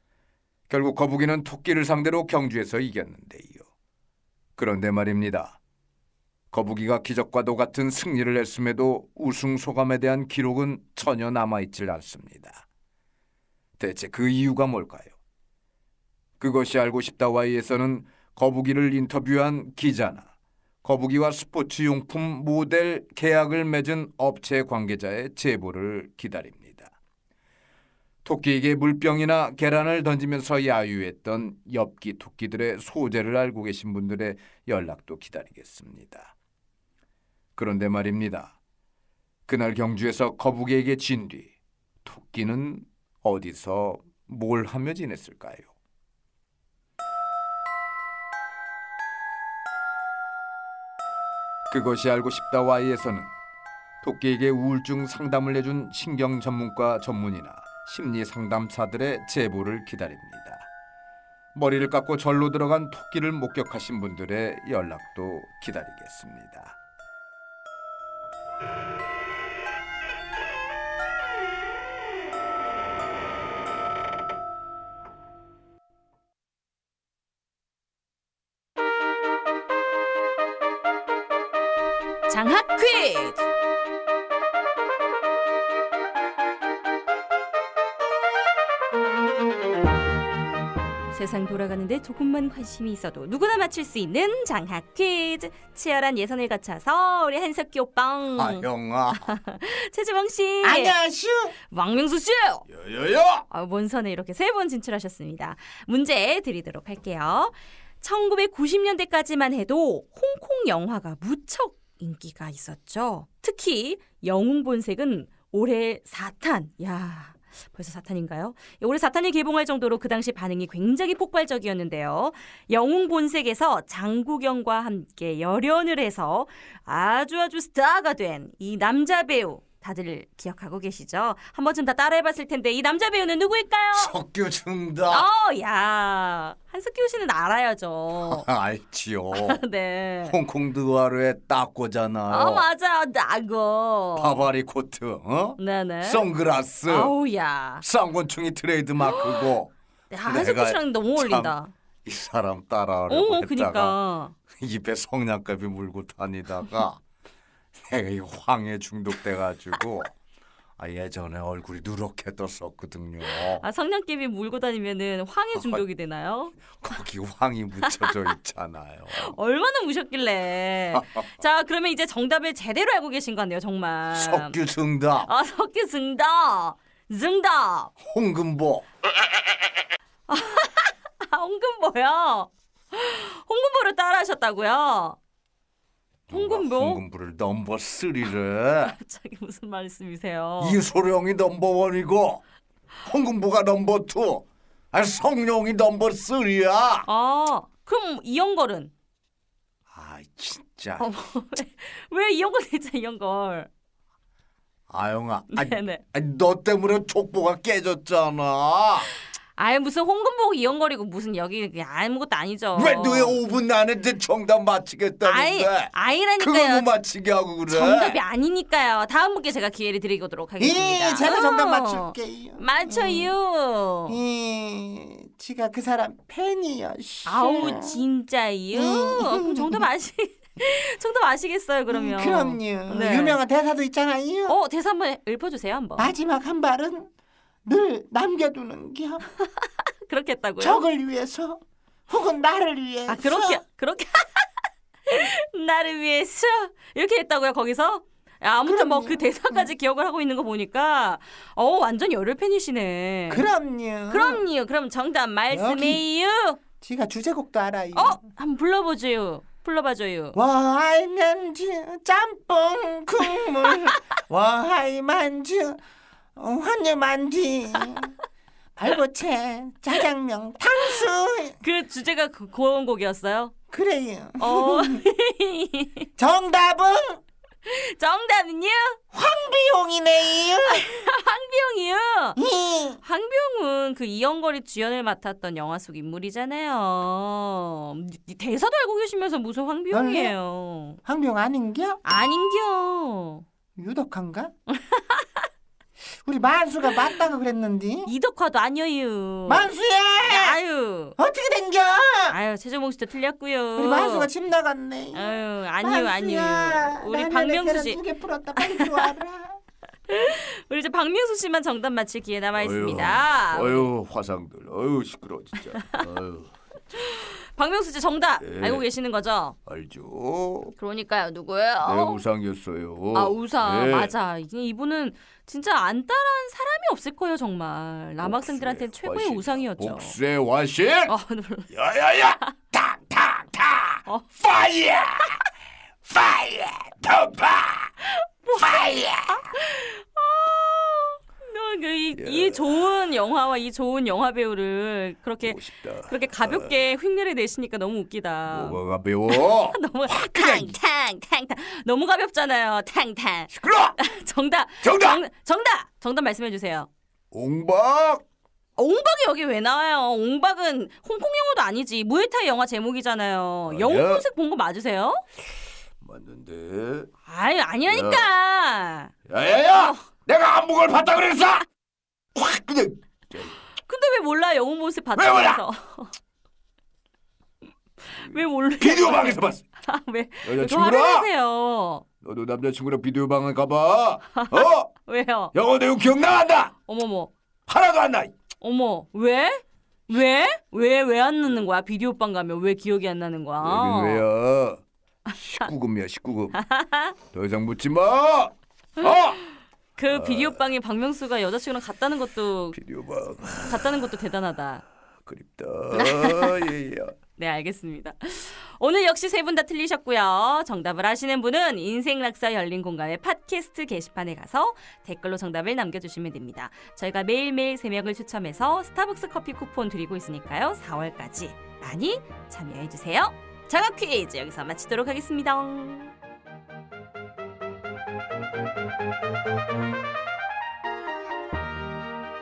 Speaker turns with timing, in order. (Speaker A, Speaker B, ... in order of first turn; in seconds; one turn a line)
Speaker A: 0.7-3.6
Speaker A: 4.6-5.6
Speaker A: 6.5-12.6
Speaker A: 13.8-15.1
Speaker A: 16.4-20.3
Speaker A: 20.8-26.9
Speaker A: 28.2-36.3
Speaker A: 37.5-38.5
Speaker A: 39.5-41.5
Speaker A: 42.0-45.7
Speaker A: 51.7-53.3
Speaker A: 54.0-60.7
Speaker A: 61.5-66.8
Speaker B: 82.3-83.5
Speaker B: 91.1-100.9
Speaker A: 98.3-99.3
Speaker A: 100.6-101.5
Speaker B: 101.7-102.7
Speaker A: 102.7-103.4
Speaker B: 103.5-134.1
Speaker A: 133.9-135.2
Speaker B: 135.1-138.4
Speaker A: 138.2-139.6
Speaker B: 139.3-140.4
Speaker A: 140.2-142.7
Speaker B: 142.3-144.4
Speaker A: 144.2-147.2
Speaker B: 145.6-146.3
Speaker B: 146.8-147.8
Speaker A: 147.8-149.7
Speaker B: 149.0-149.5
Speaker B: 150.1-151.7
Speaker A: 150.2-154.0
Speaker B: 153.1-154.3
Speaker A: 154.6-157.0
Speaker A: 157.8-160.1
Speaker A: 160.8-163.6
Speaker B: 163.3-166.8
Speaker A: 165.5-165.8
Speaker A: 166.8-169.3
Speaker B: 167.8-168.3
Speaker B: 169.1-174.6
Speaker A: 170.9-171.2
Speaker A: 174.1-175.3
Speaker B: 175.2-177.9
Speaker A: 178.0-178.9
Speaker B: 180.3-185.2
Speaker A: 186.3-188.9
Speaker B: 186.3-187.0
Speaker B: 188.8-190.8
Speaker A: 190.6-192.4
Speaker A: 193.0-197.1
Speaker B: 197.1-198.9
Speaker A: 199.9-201.1
Speaker B: 201.0-203.7
Speaker A: 204.9-209.1
Speaker B: 205.5-206.0
Speaker B: 209.5-213.4
Speaker A: 212.8-218.2
Speaker B: 215.2-217.0
Speaker B: 217.7-224.2
Speaker C: 220.6-221.7
Speaker A: 221.1-223.3
Speaker C: 224.1-225.1
Speaker A: 225.0-227.8
Speaker C: 226.5-226.8
Speaker B: 227.2-233.4
Speaker A: 228.9-229.8
Speaker C: 231.9-234.0
Speaker A: 232.5-234.6
Speaker B: 234.5-236.1
Speaker C: 236.0-236.8
Speaker A: 236.2-237.1
Speaker C: 237.7-239.0
Speaker A: 238.6-239.2
Speaker B: 239.4-240.8
Speaker C: 240.6-241.3
Speaker A: 240.9-241.6
Speaker C: 242.1-242.6
Speaker A: 242.4-243.6
Speaker B: 243.1-244.5
Speaker B: 245.1-253.5
Speaker A: 248.7-249.7
Speaker A: 253.4-254.4
Speaker B: 254.1-256.6
Speaker A: 255.5-256.0
Speaker A: 256.8-258.2
Speaker B: 257.9-260.4
Speaker C: 260.4-261.4
Speaker A: 260.4-264.1
Speaker C: 262.1-262.9
Speaker B: 263.4-263.9
Speaker C: 263.6-265.6
Speaker A: 265.3-265.8
Speaker C: 266.4-267.0
Speaker A: 266.5-267.8
Speaker C: 268.8-269.3
Speaker A: 269.2-270.6
Speaker C: 270.0-271.4
Speaker B: 271.6-273.5
Speaker A: 273.7-274.4
Speaker C: 273.7-275.0
Speaker B: 274.4-276.1
Speaker C: 276.2-277.2
Speaker B: 277.6-279.0
Speaker C: 279.1-280.8
Speaker B: 280.4-282.4
Speaker C: 282.4-282.9
Speaker B: 283.0-291.0
Speaker C: 289.9-290.2
Speaker C: 291.1-292.0
Speaker B: 292.0-293.4
Speaker C: 293.8-294.5
Speaker A: 294.2-294.5
Speaker B: 294.7-295.5
Speaker C: 296.3-298.1
Speaker B: 298.1-299.7
Speaker C: 299.5-300.6
Speaker A: 299.7-300.3
Speaker B: 300.2-301.2
Speaker C: 301.2-302.3
Speaker A: 301.3-302.1
Speaker B: 302.3-304.3
Speaker A: 303.8-305.3
Speaker B: 305.1-308.0
Speaker A: 305.8-309.6
Speaker C: 305.9-306.2
Speaker B: 308.5-309.1
Speaker C: 308.7-309.1
Speaker B: 310.1-313.9
Speaker A: 312.6-316.5
Speaker B: 316.9-319.6
Speaker A: 318.4-318.9
Speaker A: 319.6-320.7
Speaker B: 320.8-322.2
Speaker A: 321.8-324.1
Speaker B: 323.1-330.1
Speaker A: 328.2-331.1
Speaker B: 331.1-331.7
Speaker A: 331.7-335.4
Speaker B: 334.1-334.3
Speaker A: 336.1-338.0
Speaker B: 338.1-356.9
Speaker A: 338.5-339.4
Speaker A: 342.1-342.8
Speaker A: 345.4-346.7
Speaker A: 348.5-350.8
Speaker A: 353.5-354.0
Speaker A: 354.8-355.2
Speaker A: 357.3-358.2
Speaker B: 358.8-365.2
Speaker A: 363.7-364.3
Speaker A: 366.0-367.1
Speaker B: 367.2-369.1
Speaker A: 367.9-368.2
Speaker A: 369.3-371.6
Speaker B: 369.7-370.1
Speaker A: 372.3-373.6
Speaker B: 373.8-376.1
Speaker A: 375.1-375.6
Speaker B: 378.0-382.0
Speaker A: 378.3-379.6
Speaker A: 380.4-381.3
Speaker A: 382.2-384.9
Speaker B: 384.3-385.5
Speaker A: 385.5-386.7
Speaker B: 386.8-387.3
Speaker A: 387.7-388.3
Speaker B: 388.6-394.3
Speaker A: 393.6-394.8
Speaker A: 395.3-396.6
Speaker B: 396.5-397.1
Speaker A: 397.3-399.4
Speaker B: 399.0-402.8
Speaker A: 400.1-400.5
Speaker A: 402.7-404.1
Speaker B: 403.6-404.9
Speaker A: 405.2-407.1
Speaker B: 405.9-406.7
Speaker B: 407.4-426.1